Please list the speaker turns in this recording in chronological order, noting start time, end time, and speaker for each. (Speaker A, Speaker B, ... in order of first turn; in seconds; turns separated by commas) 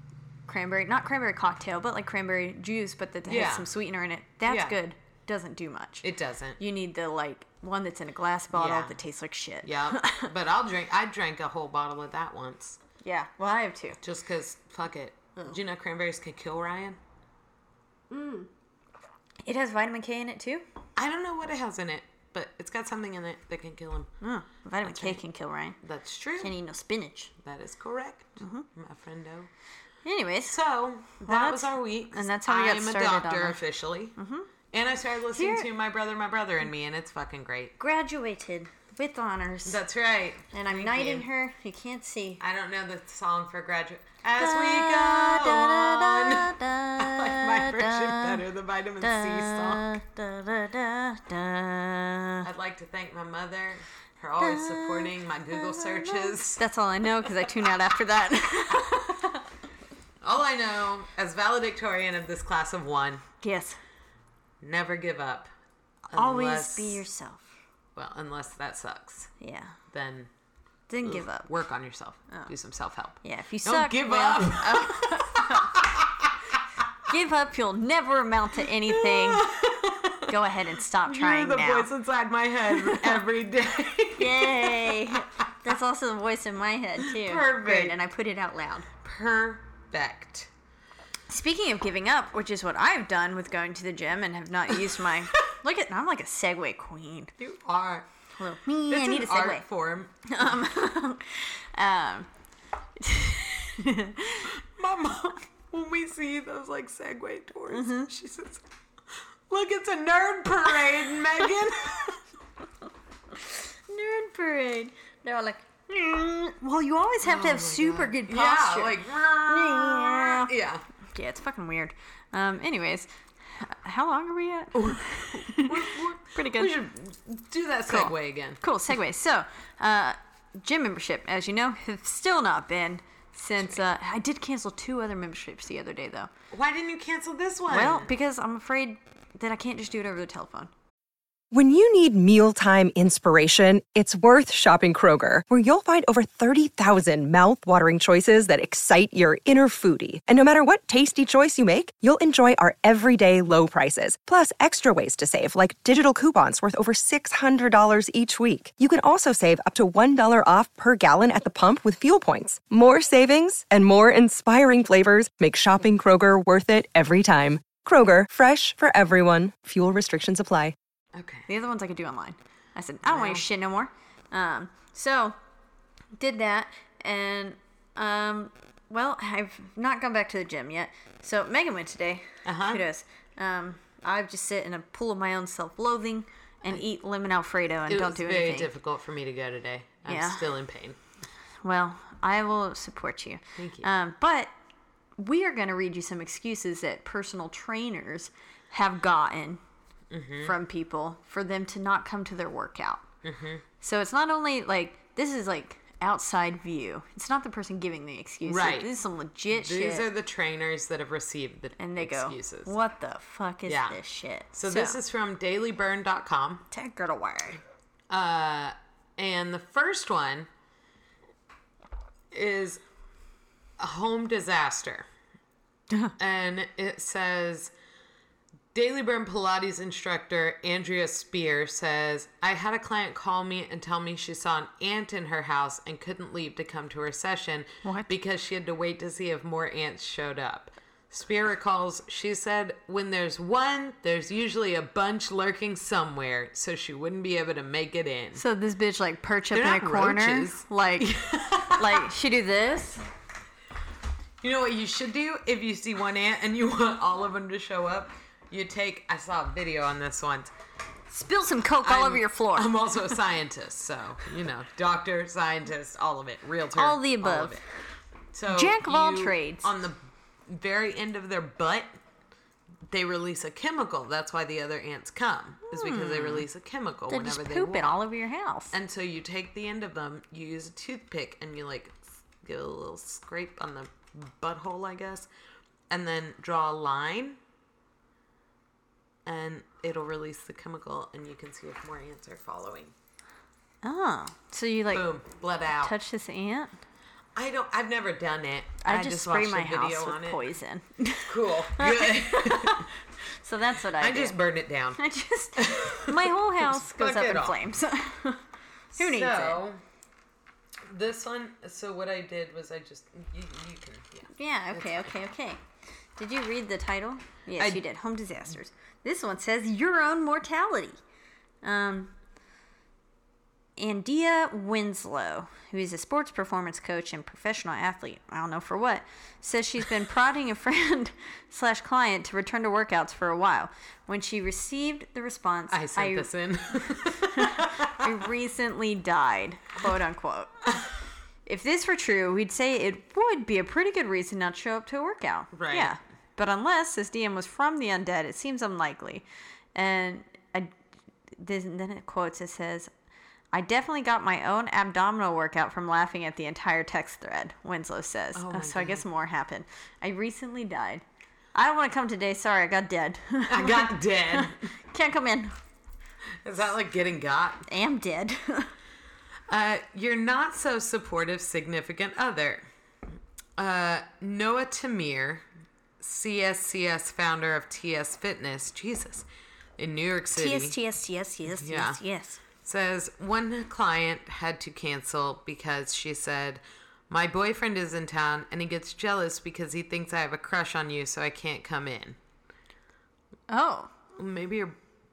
Speaker A: 0.5-6.0, Speaker B: 3.2-3.7, Speaker B: 4.4-4.8, Speaker B: 6.0-6.6, Speaker A: 6.6-10.3, Speaker B: 8.5-9.0, Speaker B: 9.6-12.8, Speaker A: 13.0-14.0, Speaker B: 14.0-17.0, Speaker A: 18.1-18.5, Speaker A: 19.4-20.6, Speaker B: 20.9-24.1, Speaker A: 24.2-25.8, Speaker B: 24.8-25.2, Speaker B: 25.8-26.5, Speaker A: 26.4-27.3, Speaker B: 27.4-29.5, Speaker A: 28.4-28.7, Speaker A: 30.0-30.6, Speaker B: 30.5-34.1, Speaker A: 31.2-33.6, Speaker A: 34.1-34.5, Speaker B: 34.7-37.8, Speaker A: 35.3-35.7, Speaker A: 37.8-39.8, Speaker B: 39.6-41.3, Speaker A: 40.5-42.4, Speaker B: 42.4-49.9, Speaker A: 44.4-48.4, Speaker A: 49.0-52.5, Speaker B: 52.4-56.6, Speaker A: 54.4-59.4, Speaker B: 57.2-57.7, Speaker B: 60.2-63.2, Speaker A: 63.4-63.8, Speaker B: 64.6-65.5, Speaker B: 66.1-67.0, Speaker A: 66.1-67.5, Speaker B: 68.0-69.3, Speaker A: 69.4-69.8, Speaker B: 69.9-70.3, Speaker A: 70.9-71.5, Speaker B: 71.0-76.3, Speaker A: 73.2-75.8, Speaker A: 77.1-79.5, Speaker B: 78.9-80.3, Speaker A: 80.3-81.9, Speaker B: 81.0-85.2, Speaker A: 82.7-83.2, Speaker A: 84.2-88.9, Speaker B: 87.0-88.0, Speaker B: 89.0-90.5, Speaker A: 91.3-97.3, Speaker B: 97.4-98.1, Speaker A: 98.4-99.7, Speaker B: 98.9-100.2, Speaker A: 100.2-102.3, Speaker A: 103.0-104.5, Speaker B: 104.5-112.2, Speaker A: 107.7-108.1, Speaker A: 113.4-120.5, Speaker B: 117.2-120.8, Speaker A: 121.1-126.7, Speaker B: 124.7-128.6, Speaker A: 127.9-136.3, Speaker B: 136.5-138.1, Speaker A: 137.7-140.7, Speaker C: 141.5-170.7, Speaker B: 171.1-171.5, Speaker A: 171.5-175.3, Speaker B: 173.0-173.4, Speaker A: 176.2-188.7, Speaker B: 182.4-182.8, Speaker B: 187.9-191.0, Speaker A: 190.1-190.5, Speaker A: 191.6-194.5, Speaker B: 193.6-193.9, Speaker A: 195.2-199.6, Speaker B: 200.1-200.5, Speaker A: 200.4-203.1, Speaker B: 203.2-203.6, Speaker A: 203.8-210.1, Speaker B: 208.4-208.9, Speaker B: 209.5-212.7, Speaker A: 211.8-215.0, Speaker B: 213.7-214.0, Speaker B: 214.5-216.6, Speaker A: 216.7-217.6, Speaker B: 218.1-220.5, Speaker B: 222.3-222.8, Speaker B: 223.8-225.1, Speaker B: 226.2-227.7, Speaker B: 228.7-248.4, Speaker A: 237.8-238.1, Speaker A: 248.3-251.1, Speaker B: 249.5-252.1, Speaker A: 251.7-253.0, Speaker B: 254.4-260.5, Speaker A: 261.1-262.9, Speaker B: 261.8-267.6, Speaker A: 266.8-267.6, Speaker B: 268.3-271.9, Speaker A: 268.5-269.7, Speaker B: 272.9-278.0, Speaker A: 275.7-276.5, Speaker A: 277.1-278.7, Speaker B: 278.7-285.3, Speaker B: 285.9-287.4, Speaker B: 289.2-292.9, Speaker A: 293.8-295.1, Speaker B: 294.9-295.9, Speaker A: 295.7-296.7, Speaker B: 297.4-300.4, Speaker A: 298.8-304.4, Speaker B: 301.3-302.9, Speaker B: 303.9-305.0, Speaker A: 305.0-308.4, Speaker B: 305.6-307.6, Speaker A: 308.9-309.6, Speaker B: 308.9-309.8, Speaker B: 310.9-315.1, Speaker A: 314.3-315.6, Speaker A: 316.1-321.0, Speaker B: 317.6-317.8, Speaker A: 321.6-322.1, Speaker A: 323.8-336.3, Speaker B: 335.7-338.1, Speaker A: 337.2-340.6, Speaker A: 341.4-350.7, Speaker B: 345.5-345.9, Speaker A: 351.4-352.9, Speaker A: 353.5-361.0, Speaker B: 358.3-359.0, Speaker A: 361.5-365.5, Speaker B: 363.5-364.6, Speaker B: 366.4-367.7, Speaker A: 367.7-368.7, Speaker B: 369.5-372.6, Speaker B: 373.6-375.4, Speaker B: 376.0-379.3, Speaker B: 379.8-380.8, Speaker A: 380.3-382.4, Speaker B: 381.5-382.0, Speaker B: 382.6-392.2, Speaker A: 393.5-393.9, Speaker B: 394.1-394.8